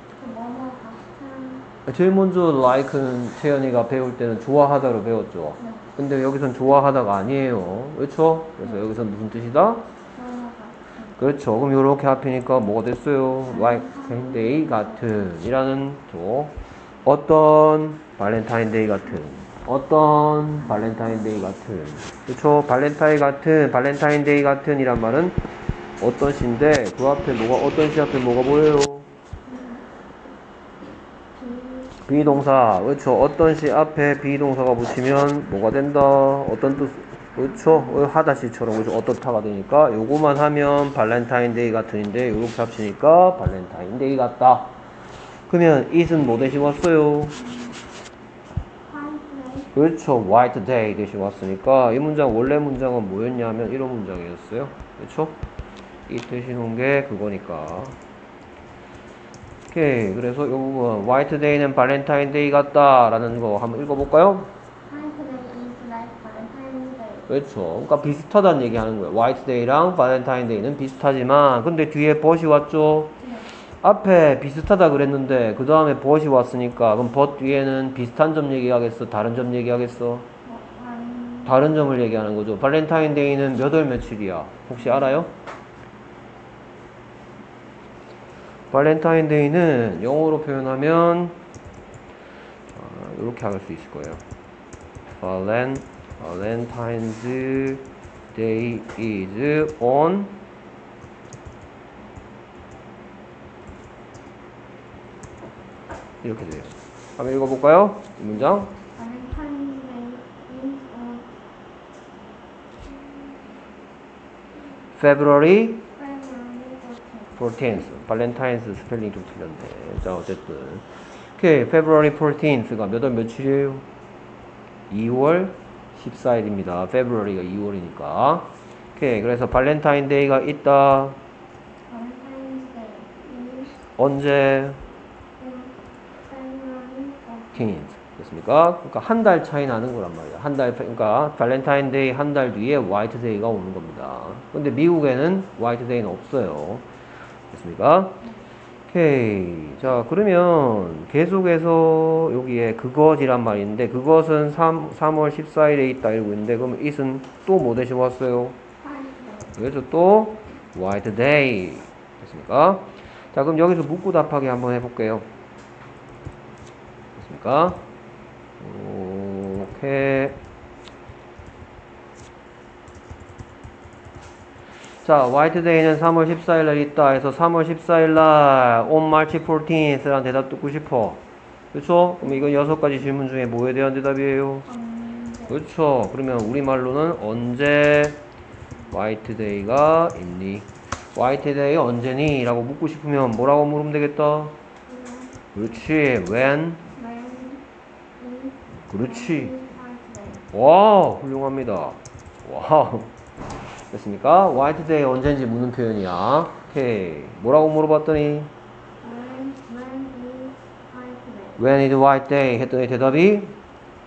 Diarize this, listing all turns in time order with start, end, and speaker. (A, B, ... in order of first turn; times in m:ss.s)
0:00.2-0:01.7 A
0:01.9-0:09.8 B
0:05.6-0:05.9 A
0:10.2-0:11.2 A
0:11.2-0:25.4 B
0:13.5-0:15.1 A
0:20.7-0:21.4 A
0:26.0-0:29.1 B
0:29.5-0:29.9 A
0:31.3-0:32.5 A
0:32.1-0:44.7 B
0:37.4-0:38.1 A
0:45.5-0:47.4 B
0:47.4-0:47.8 A
0:48.8-0:49.7 A
0:49.7-0:55.4 B
0:56.1-0:58.0 B
0:59.7-1:04.5 B
1:04.8-1:07.3 A
1:07.3-1:20.3 B
1:13.2-1:13.5 A
1:20.4-1:21.7 A
1:21.4-1:25.3 B
1:24.8-1:25.2 A
1:28.7-1:31.4 B
1:32.7-1:34.2 B
1:35.2-1:40.3 B
1:46.2-1:48.7 B
1:49.0-1:51.3 A
1:52.9-1:53.3 A
1:55.0-1:55.8 B
1:56.0-1:57.5 A
1:57.4-2:03.8 B
2:04.9-2:11.2 B
2:11.9-2:13.8 A
2:13.8-2:14.8 B
2:15.4-2:17.8 A
2:17.6-2:26.8 B
2:27.5-2:28.2 B
2:28.9-2:38.6 B
2:38.8-2:39.6 A
2:39.6-2:45.3 B
2:47.2-2:47.8 B
2:48.6-2:50.4 B
2:55.0-3:01.2 B
3:01.7-3:04.7 B
3:02.2-3:02.5 A
3:04.7-3:05.6 A
3:05.5-3:08.2 B
3:08.9-3:14.6 B
3:14.9-3:15.4 A
3:15.5-3:16.8 B
3:17.0-3:17.6 A
3:18.2-3:20.5 A
3:18.9-3:19.5 B
3:20.5-3:23.1 B
3:23.9-3:28.5 B
3:29.0-3:31.6 A
3:31.6-3:33.6 B